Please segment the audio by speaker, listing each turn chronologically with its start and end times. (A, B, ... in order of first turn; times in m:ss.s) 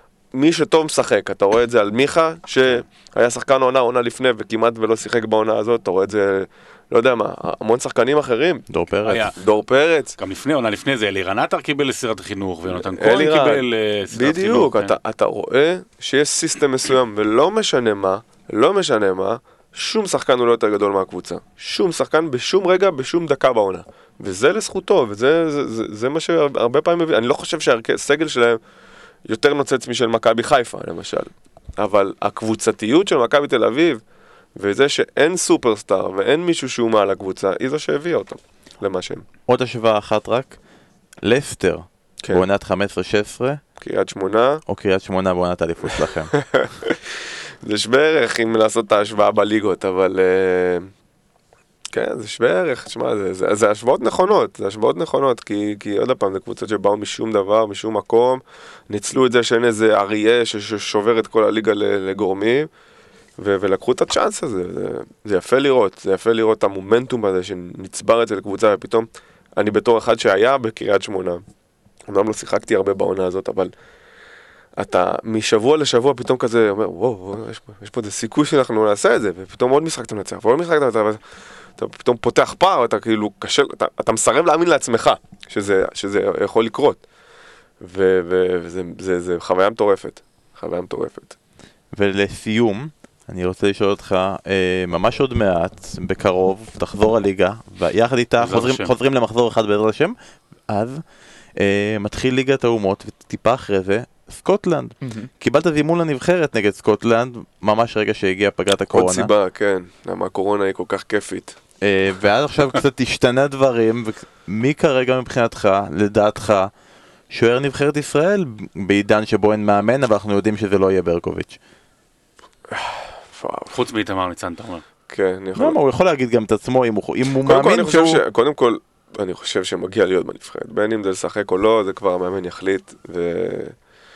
0:00.3-0:08.6 A
0:08.7-0:09.3 B
0:09.1-0:09.3 C
0:09.3-0:10.2 A
0:10.2-0:14.9 C
0:12.8-0:28.6 A
0:29.2-0:34.0 A
0:34.5-0:39.2 A
0:39.5-0:40.6 B
0:41.2-0:43.6 B
0:43.8-0:44.6 A
0:44.7-0:46.3 B
0:46.3-0:50.9 A
0:51.9-1:02.7 A
1:03.4-1:11.4 A
1:12.1-1:13.7 A
1:14.8-1:21.2 A
1:21.8-1:27.0 A
1:27.8-1:31.4 A
1:31.9-1:40.1 B
1:38.4-1:38.9 C
1:40.7-1:41.0 B
1:41.6-1:49.3 B
1:48.9-1:51.6 A
1:51.8-1:56.7 B
1:57.3-2:01.6 B
2:02.7-2:03.8 A
2:03.7-2:04.8 C
2:05.1-2:05.8 A
2:05.5-2:08.2 B
2:07.4-2:13.8 A